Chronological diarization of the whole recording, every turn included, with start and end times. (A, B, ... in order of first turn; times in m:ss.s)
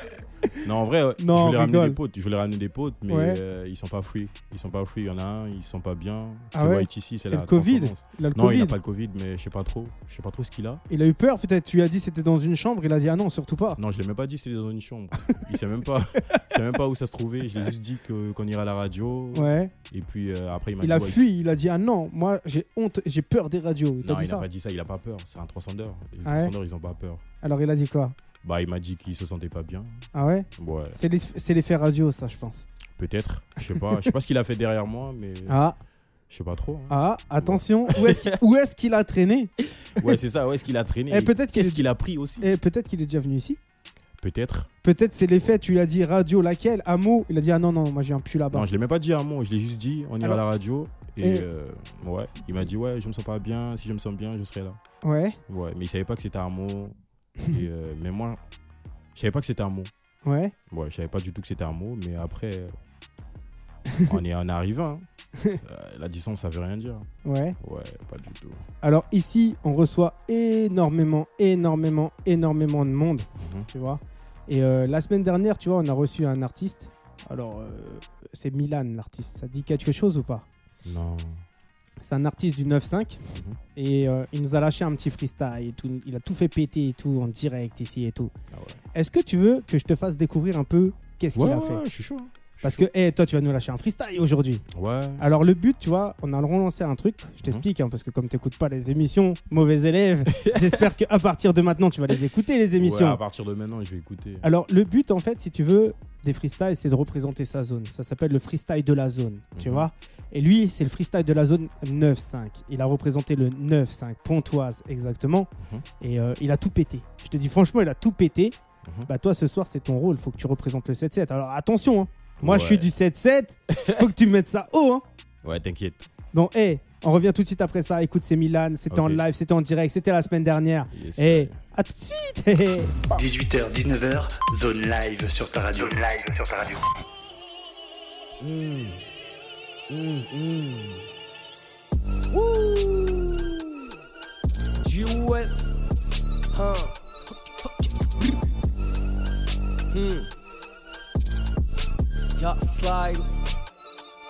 0:00.6-0:10.8 A
0:01.2-0:02.0 B
0:03.1-0:03.4 B
0:06.5-0:08.8 B
0:10.9-0:13.8 B
0:13.8-0:21.3 A
0:19.3-0:19.7 B
0:20.8-0:24.4 B
0:24.0-0:27.2 A
0:26.2-0:26.5 B
0:27.4-0:28.2 B
0:28.4-0:30.1 A
0:30.1-0:32.7 B
0:30.6-0:31.0 A
0:33.0-0:35.6 A
0:35.5-0:35.8 B
0:36.3-0:38.4 A
0:36.9-0:39.5 B
0:40.0-0:42.5 A
0:41.1-0:41.8 B
0:42.4-0:43.6 B
0:44.2-0:44.7 A
0:44.8-0:48.7 B
0:48.5-0:54.8 A
0:51.2-0:51.5 B
0:55.0-0:55.4 B
0:55.5-0:57.0 A
0:57.5-0:58.4 A
0:59.2-0:59.9 A
1:00.2-1:00.5 B
1:00.7-1:02.8 A
1:04.0-1:05.0 A
1:05.6-1:07.1 A
1:07.2-1:07.6 B
1:07.6-1:08.6 A
1:08.8-1:20.5 B
1:13.4-1:13.7 A
1:20.8-1:21.4 A
1:22.0-1:23.2 B
1:23.3-1:23.6 A
1:23.8-1:28.3 B
1:28.5-1:28.8 A
1:28.9-1:31.8 B
1:31.4-1:32.8 A
1:32.6-1:34.6 B
1:34.7-1:35.3 A
1:35.2-1:43.2 B
1:37.4-1:37.7 A
1:40.3-1:40.8 A
1:42.8-1:44.5 A
1:44.4-1:55.5 B
1:49.6-1:49.9 A
1:55.6-1:55.8 A
1:56.0-1:58.6 B
1:58.8-1:59.1 A
1:59.1-2:05.0 B
2:02.4-2:02.9 A
2:03.7-2:04.1 A
2:05.4-2:06.1 A
2:06.3-2:13.0 B
2:08.9-2:09.2 A
2:10.9-2:11.6 A
2:13.1-2:16.8 C
2:18.4-2:19.0 A
2:19.9-2:21.0 A
2:22.3-2:23.5 D
2:24.8-2:25.8 D
2:26.5-2:27.0 D
2:27.6-2:28.4 D
2:29.9-2:30.3 D
2:32.4-2:33.3 D